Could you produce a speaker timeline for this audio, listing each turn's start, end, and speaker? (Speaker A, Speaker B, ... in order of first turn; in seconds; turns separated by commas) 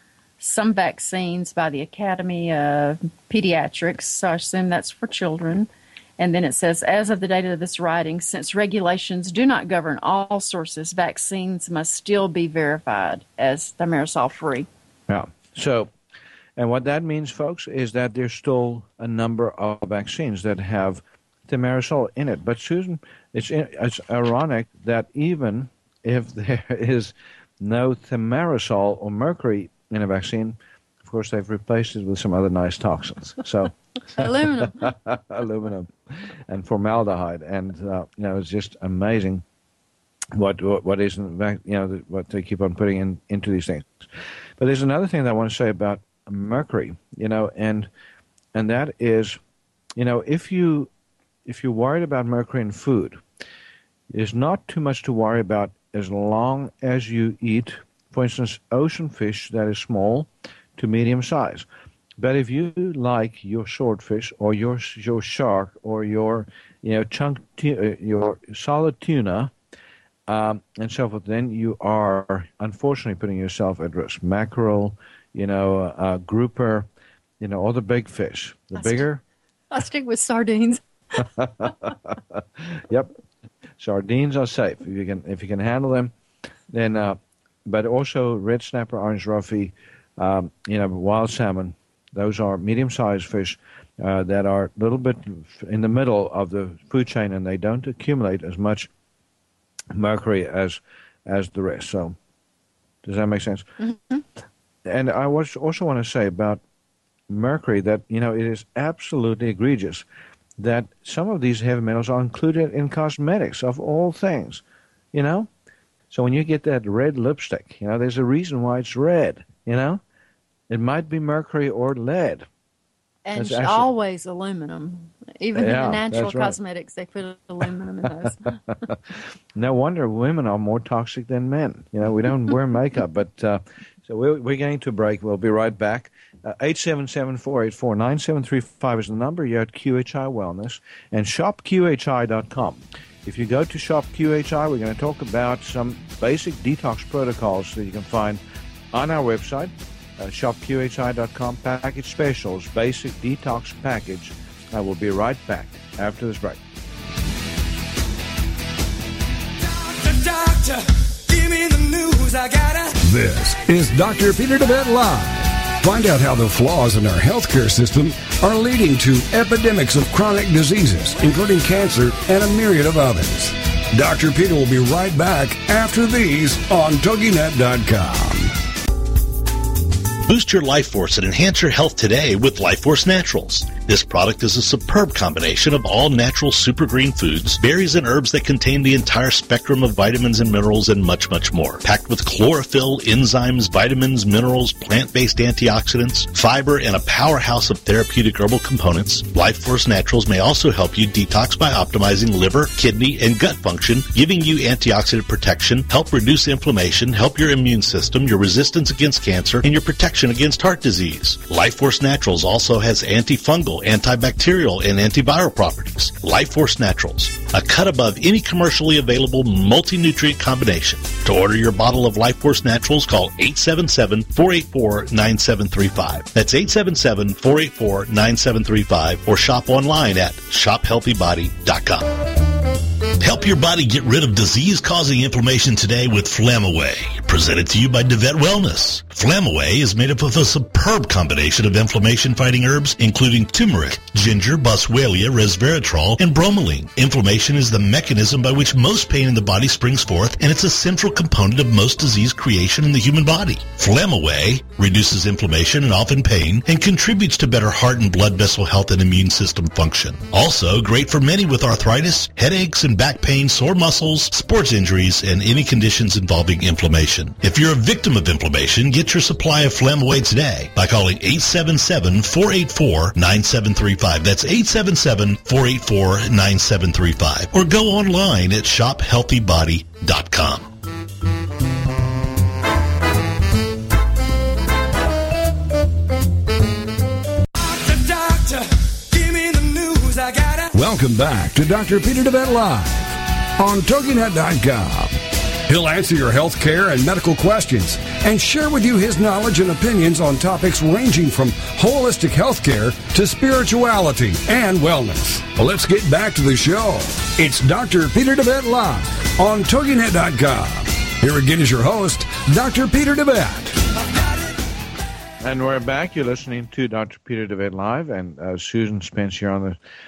Speaker A: 0.4-14.7, Speaker B: 15.1-15.9, Speaker B: 16.6-35.9, Speaker A: 34.1-34.9, Speaker B: 36.5-39.4, Speaker B: 40.3-44.1, Speaker B: 44.6-47.9, Speaker B: 48.5-49.4, Speaker B: 50.0-50.9, Speaker B: 51.5-53.2, Speaker B: 54.1-61.7, Speaker B: 62.2-69.5, Speaker B: 70.3-76.9, Speaker B: 77.4-79.2, Speaker A: 78.8-79.0, Speaker A: 79.7-81.7, Speaker B: 81.2-83.1, Speaker B: 83.8-86.1, Speaker B: 86.7-98.9, Speaker B: 99.9-102.2, Speaker B: 103.0-103.7, Speaker B: 104.8-106.6, Speaker B: 107.3-110.1, Speaker B: 110.6-115.5, Speaker B: 116.1-120.0, Speaker B: 120.7-122.5, Speaker A: 123.2-128.7, Speaker B: 123.3-123.9, Speaker B: 125.5-126.6, Speaker B: 128.4-129.0, Speaker B: 129.6-148.4, Speaker B: 148.9-156.6, Speaker C: 159.6-163.0, Speaker D: 163.0-178.5, Speaker E: 180.2-232.4, Speaker E: 233.2-280.7, Speaker C: 287.6-290.7, Speaker D: 290.7-313.8, Speaker B: 315.4-319.8